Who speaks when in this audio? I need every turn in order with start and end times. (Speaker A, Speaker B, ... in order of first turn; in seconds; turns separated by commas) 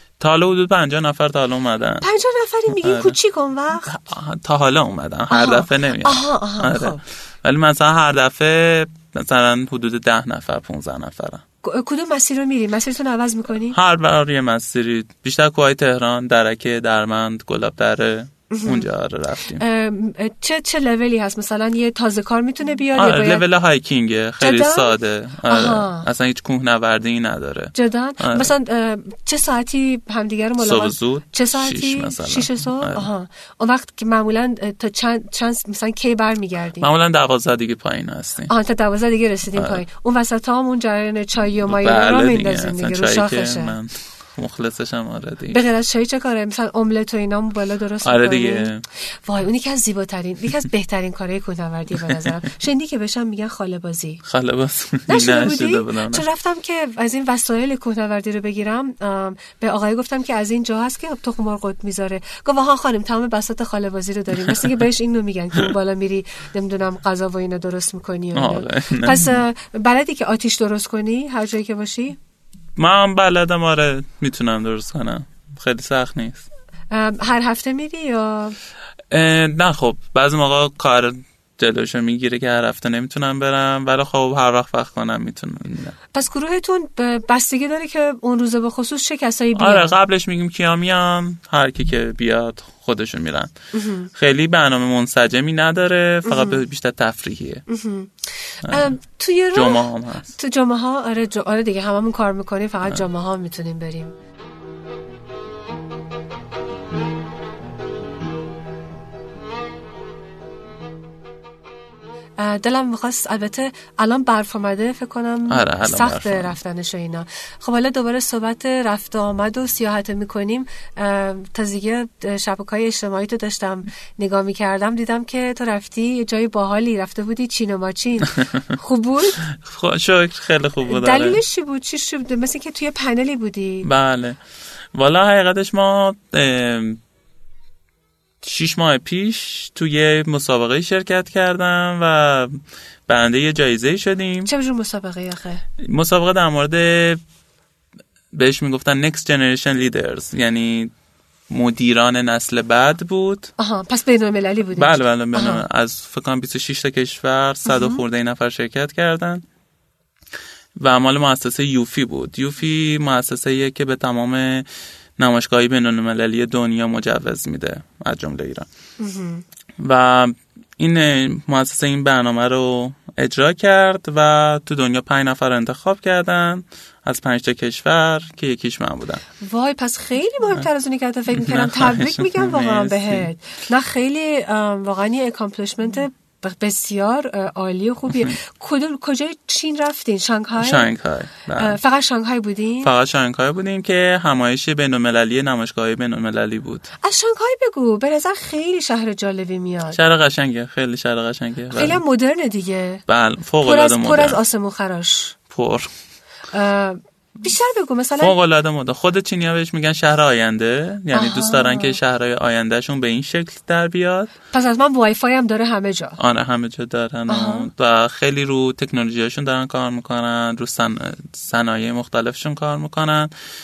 Speaker A: 0.2-2.0, Speaker B: 2.0-3.9, Speaker A: 2.8-3.2, Speaker A: 3.8-11.4, Speaker B: 5.3-7.0, Speaker B: 11.6-13.8, Speaker A: 13.7-19.6, Speaker B: 18.5-18.9, Speaker B: 19.5-23.4, Speaker A: 22.9-28.5, Speaker B: 24.4-24.9, Speaker B: 25.5-26.1, Speaker B: 27.7-36.9, Speaker A: 30.6-33.1, Speaker A: 36.8-38.5, Speaker B: 38.5-43.7, Speaker A: 39.5-39.8, Speaker A: 41.6-45.6, Speaker B: 45.5-48.7, Speaker A: 48.0-48.8, Speaker B: 49.2-54.2, Speaker A: 54.2-56.2, Speaker B: 55.1-72.2, Speaker A: 64.4-64.7, Speaker A: 68.3-69.4, Speaker A: 72.8-76.5, Speaker B: 76.9-78.5, Speaker A: 79.1-86.0, Speaker B: 86.1-89.9, Speaker A: 89.5-93.5, Speaker B: 93.7-94.1, Speaker A: 94.1-97.6, Speaker B: 96.2-96.6, Speaker B: 97.7-104.1, Speaker A: 98.6-98.9, Speaker A: 99.5-100.3, Speaker B: 112.4-129.4, Speaker A: 115.5-116.6, Speaker A: 129.4-131.4, Speaker B: 130.8-133.9, Speaker A: 133.8-134.4, Speaker A: 134.9-137.0, Speaker A: 138.4-144.5, Speaker B: 144.4-145.6, Speaker A: 145.8-147.2, Speaker A: 148.3-150.9, Speaker A: 151.5-153.5, Speaker B: 153.6-155.6, Speaker A: 154.7-159.4, Speaker B: 157.7-158.0, Speaker A: 160.8-168.7, Speaker B: 169.0-169.4, Speaker A: 169.8-179.2, Speaker B: 179.4-190.9, Speaker A: 181.3-183.3, Speaker A: 190.6-191.8, Speaker B: 191.6-192.9, Speaker A: 192.8-196.9, Speaker B: 197.0-200.0, Speaker A: 199.9-202.0, Speaker B: 201.7-203.0, Speaker A: 203.1-204.4, Speaker B: 203.6-205.3, Speaker A: 205.5-205.9, Speaker B: 206.5-208.3, Speaker A: 208.2-214.3, Speaker B: 211.1-212.0, Speaker B: 214.5-216.2, Speaker A: 216.2-223.3, Speaker B: 217.3-217.7